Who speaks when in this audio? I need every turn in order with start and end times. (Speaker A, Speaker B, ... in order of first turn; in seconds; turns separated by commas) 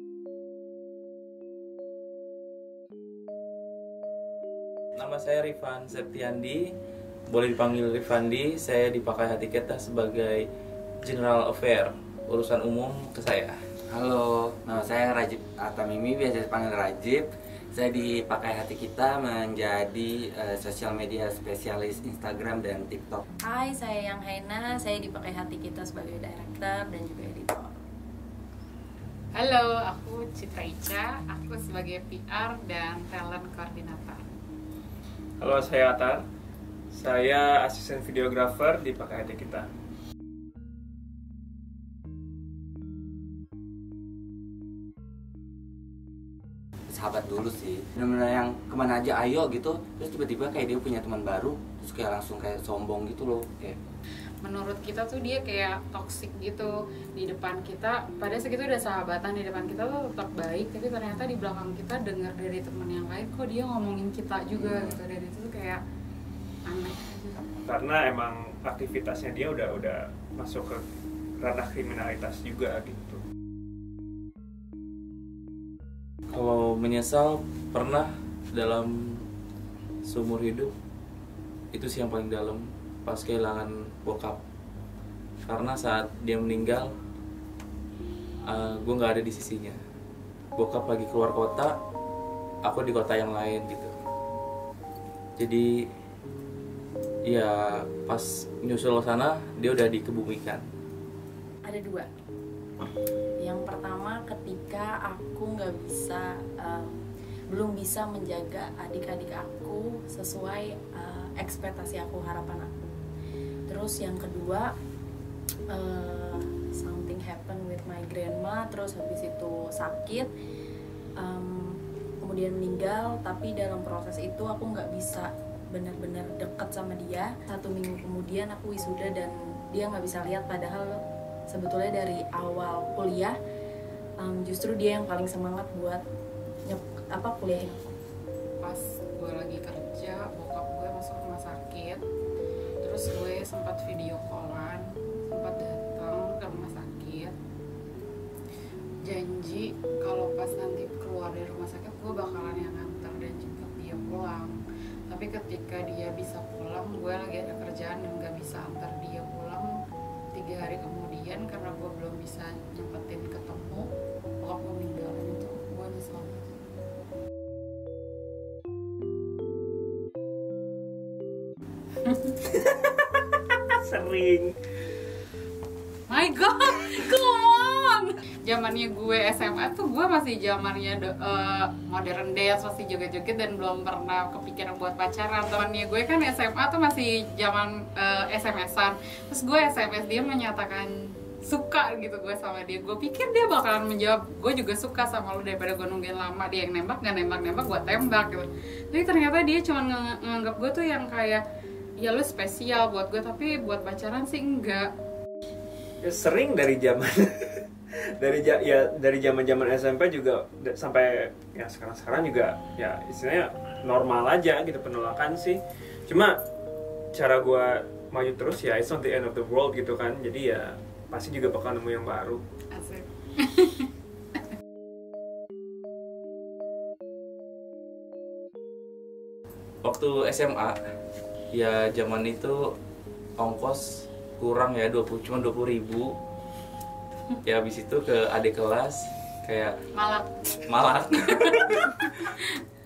Speaker A: 5.0-6.6, Speaker A: 7.3-10.4, Speaker A: 11.0-13.6, Speaker B: 13.9-23.2, Speaker C: 23.5-27.7, Speaker D: 29.3-34.2, Speaker E: 35.4-36.2, Speaker E: 36.9-39.7, Speaker B: 46.9-53.8, Speaker D: 54.4-65.8, Speaker B: 64.5-65.0, Speaker D: 66.7-67.5, Speaker E: 67.6-70.8, Speaker E: 71.4-73.2, Speaker A: 76.3-79.2, Speaker A: 80.0-80.7, Speaker A: 81.7-84.4, Speaker A: 85.5-86.9, Speaker A: 88.5-89.8, Speaker A: 90.6-91.7, Speaker A: 92.6-93.9, Speaker A: 95.4-95.7, Speaker A: 97.3-100.6, Speaker C: 101.7-102.1, Speaker C: 103.4-106.9, Speaker C: 107.5-112.7, Speaker C: 113.7-114.7, Speaker C: 115.7-120.3, Speaker C: 121.2-133.3, Speaker C: 134.2-136.0, Speaker C: 136.7-137.9, Speaker D: 138.6-142.0, Speaker D: 142.8-147.3, Speaker D: 149.1-154.5, Speaker D: 155.1-159.7, Speaker D: 160.3-163.9, Speaker D: 164.4-166.5, Speaker D: 172.0-172.4, Speaker E: 172.5-173.1, Speaker E: 173.7-174.5, Speaker D: 176.1-190.9, Speaker D: 191.4-201.4, Speaker D: 202.0-204.9, Speaker E: 206.0-207.7, Speaker E: 208.2-216.4, Speaker E: 217.1-222.4, Speaker D: 222.7-223.9, Speaker A: 229.8-230.7, Speaker A: 231.5-232.6, Speaker A: 233.4-236.1, Speaker A: 237.4-239.8, Speaker D: 239.9-240.3, Speaker A: 240.7-242.4